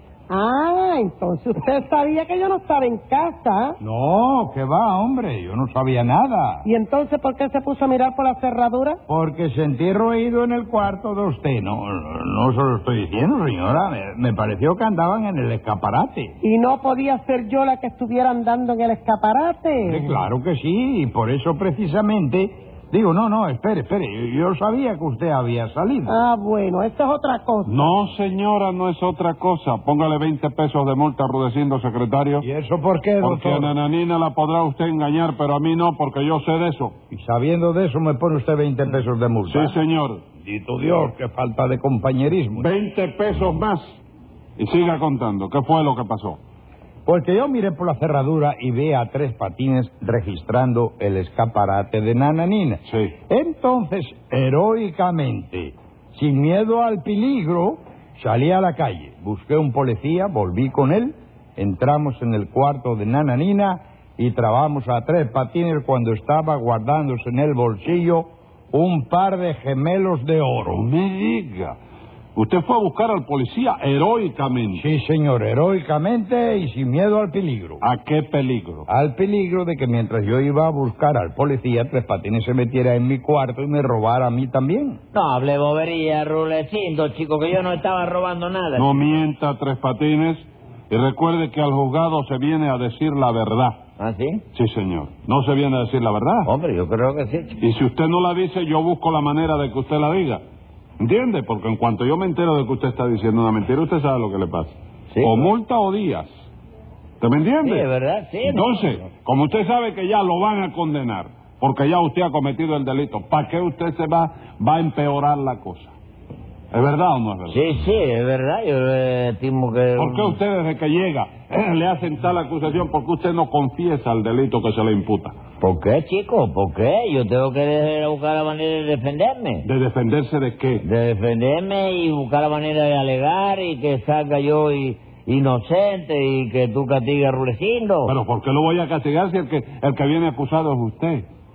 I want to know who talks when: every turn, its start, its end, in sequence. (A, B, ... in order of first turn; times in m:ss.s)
0:00.3-0:03.8 A
0:03.8-0:06.6 B
0:06.6-0:09.0 A
0:09.1-0:16.4 B
0:16.4-0:20.2 A
0:19.8-0:26.2 B
0:26.1-0:27.9 A
0:27.6-0:32.5 C
0:32.4-0:33.7 B
0:33.2-0:36.9 C
0:37.1-0:39.8 B
0:39.5-0:40.2 C
0:40.4-0:42.7 B
0:42.6-0:44.0 C
0:44.6-0:46.4 C
0:47.0-1:10.8 B
0:52.8-0:53.1 C
1:10.7-1:11.8 C
1:12.4-1:14.8 C
1:14.7-1:17.8 B
1:17.8-1:18.9 C
1:18.9-1:25.0 B
1:25.1-1:28.9 D
1:28.8-1:33.8 C
1:34.0-1:34.4 D
1:34.5-1:36.5 C
1:36.4-1:37.6 D
1:37.6-1:40.4 C
1:41.0-1:46.5 C
1:45.1-1:45.5 D
1:47.2-1:47.9 C
1:47.6-1:49.0 D
1:48.4-1:55.9 C
1:56.7-1:57.6 C
1:57.5-2:00.4 D
2:00.0-2:05.3 C
2:05.6-2:09.6 D
2:09.6-2:10.8 C
2:10.8-2:18.1 D
2:18.0-2:21.3 C